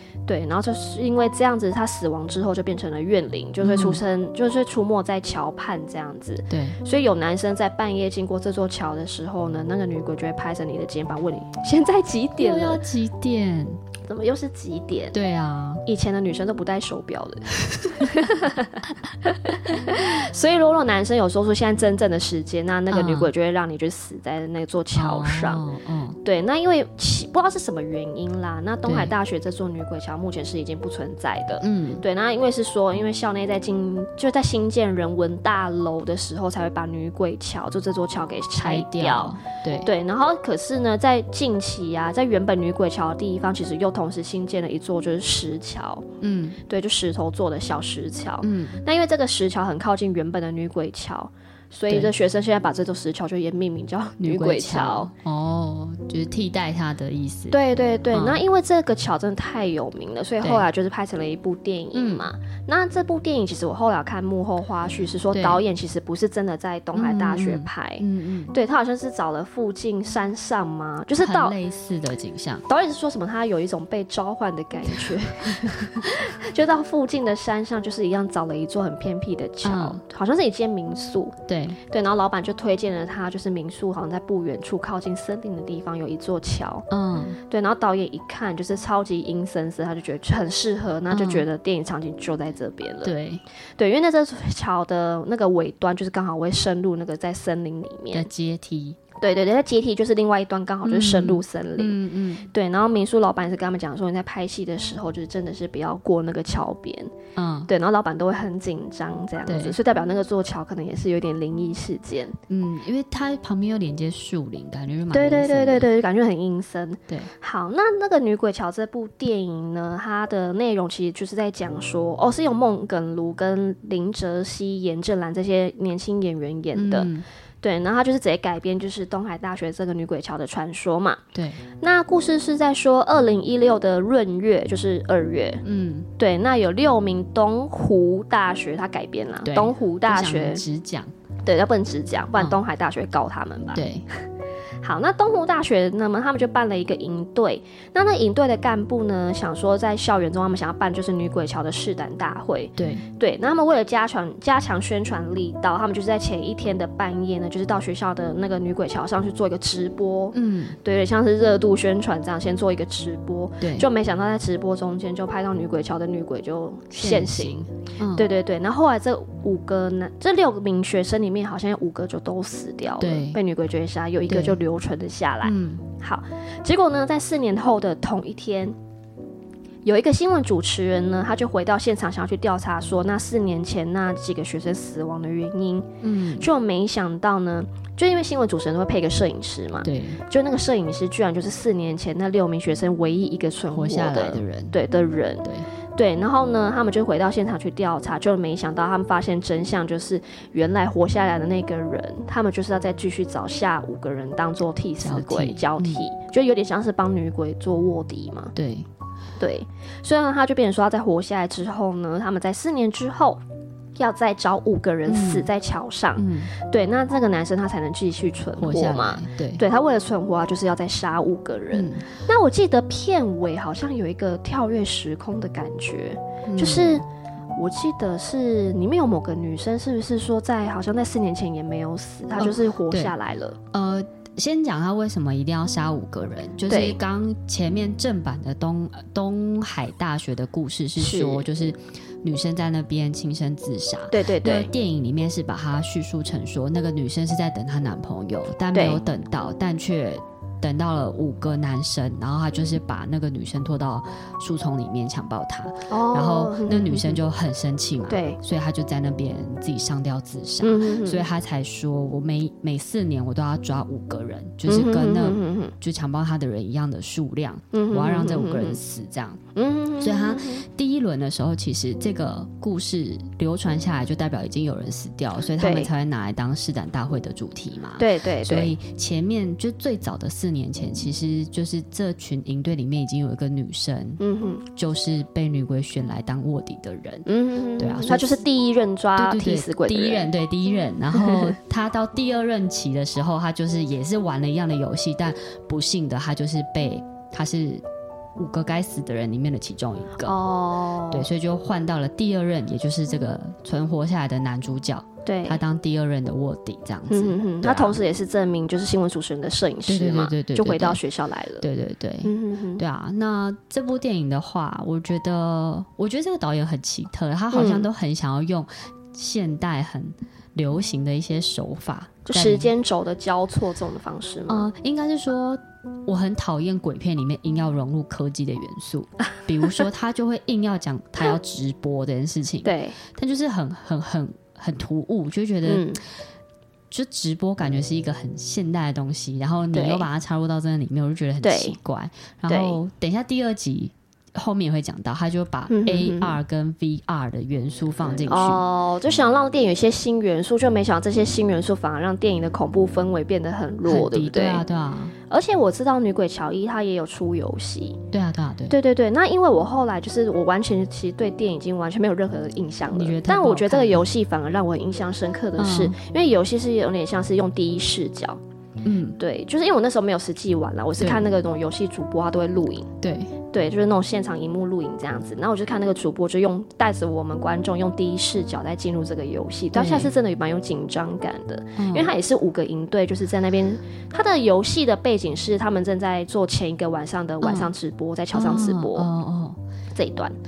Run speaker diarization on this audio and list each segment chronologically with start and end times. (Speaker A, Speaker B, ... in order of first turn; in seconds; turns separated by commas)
Speaker A: 0.3-12.8, Speaker B: 3.6-4.0, Speaker B: 6.5-6.8, Speaker B: 12.4-13.8, Speaker A: 14.1-15.2, Speaker B: 15.1-15.8, Speaker A: 15.8-25.6, Speaker B: 22.9-23.3, Speaker B: 24.9-26.2, Speaker A: 26.2-46.1, Speaker B: 28.9-29.1, Speaker B: 31.6-32.0, Speaker B: 38.6-39.9, Speaker B: 46.2-46.6, Speaker A: 46.7-55.1, Speaker B: 48.4-48.8, Speaker B: 54.2-58.4, Speaker A: 57.5-71.6, Speaker B: 60.4-60.7, Speaker B: 61.9-62.3, Speaker B: 65.3-65.6, Speaker B: 66.9-68.5, Speaker B: 71.2-72.6, Speaker A: 72.7-86.9, Speaker B: 74.9-76.1, Speaker B: 79.6-80.0, Speaker B: 81.5-81.8, Speaker B: 86.9-87.4, Speaker A: 87.5-93.1, Speaker B: 91.1-91.5, Speaker B: 93.0-93.4, Speaker A: 93.8-98.3, Speaker B: 98.1-99.0, Speaker A: 99.2-102.0, Speaker B: 100.8-102.5, Speaker A: 102.5-107.1, Speaker B: 107.3-107.7, Speaker A: 107.7-112.4, Speaker B: 109.5-109.8, Speaker B: 112.5-115.9, Speaker A: 115.1-127.1, Speaker B: 126.8-127.3, Speaker A: 127.6-131.2, Speaker B: 131.3-131.6, Speaker A: 131.8-135.6, Speaker B: 135.6-136.1, Speaker A: 136.2-140.6, Speaker B: 139.4-141.1, Speaker A: 141.4-143.9, Speaker B: 143.7-144.1, Speaker A: 144.8-178.8, Speaker B: 152.8-153.0, Speaker B: 160.3-160.8, Speaker B: 163.6-163.9, Speaker B: 166.9-168.3, Speaker B: 173.0-173.4, Speaker B: 174.3-174.6, Speaker B: 175.4-175.8, Speaker A: 179.8-208.6, Speaker B: 186.0-186.5, Speaker B: 189.8-190.2, Speaker B: 193.7-194.8, Speaker B: 205.0-206.0, Speaker B: 208.6-208.9, Speaker A: 209.4-213.4, Speaker A: 214.0-227.0, Speaker B: 215.1-215.5, Speaker B: 216.2-216.5, Speaker B: 218.6-219.6, Speaker B: 221.7-222.1, Speaker B: 226.5-227.0, Speaker A: 227.6-233.6, Speaker B: 232.4-233.1, Speaker B: 233.7-269.4, Speaker A: 236.7-237.0, Speaker A: 241.0-241.5, Speaker A: 244.1-244.7, Speaker A: 248.7-249.0, Speaker A: 255.9-257.2, Speaker A: 258.1-258.4, Speaker A: 260.6-261.2, Speaker A: 264.7-265.7, Speaker A: 267.7-268.8, Speaker A: 269.6-270.6, Speaker B: 270.0-288.4, Speaker A: 275.6-275.9, Speaker A: 278.0-278.8, Speaker A: 284.2-284.6, Speaker A: 287.3-290.3, Speaker B: 289.2-297.8, Speaker A: 291.2-291.5, Speaker B: 298.4-300.4, Speaker A: 300.2-301.3, Speaker B: 301.1-308.0, Speaker A: 305.3-305.6, Speaker A: 307.1-311.7, Speaker B: 309.9-311.0, Speaker B: 311.6-322.7, Speaker A: 312.2-312.8, Speaker A: 317.5-317.9, Speaker A: 322.3-324.7, Speaker B: 324.5-336.0, Speaker A: 332.6-333.0, Speaker A: 335.6-336.0, Speaker B: 336.9-348.6, Speaker A: 339.7-340.1, Speaker A: 341.4-341.8, Speaker A: 342.5-342.8, Speaker A: 345.7-346.4, Speaker A: 348.3-354.6, Speaker B: 353.9-355.2, Speaker A: 355.3-358.0, Speaker B: 358.1-358.8, Speaker A: 358.7-368.4, Speaker B: 362.9-364.1, Speaker B: 365.6-366.0, Speaker B: 368.8-369.2, Speaker A: 369.2-372.9, Speaker B: 371.0-371.3, Speaker B: 373.0-373.4, Speaker A: 373.5-389.1, Speaker B: 379.7-380.1, Speaker B: 381.8-382.1, Speaker B: 387.4-387.7, Speaker B: 388.3-389.6, Speaker A: 389.9-390.4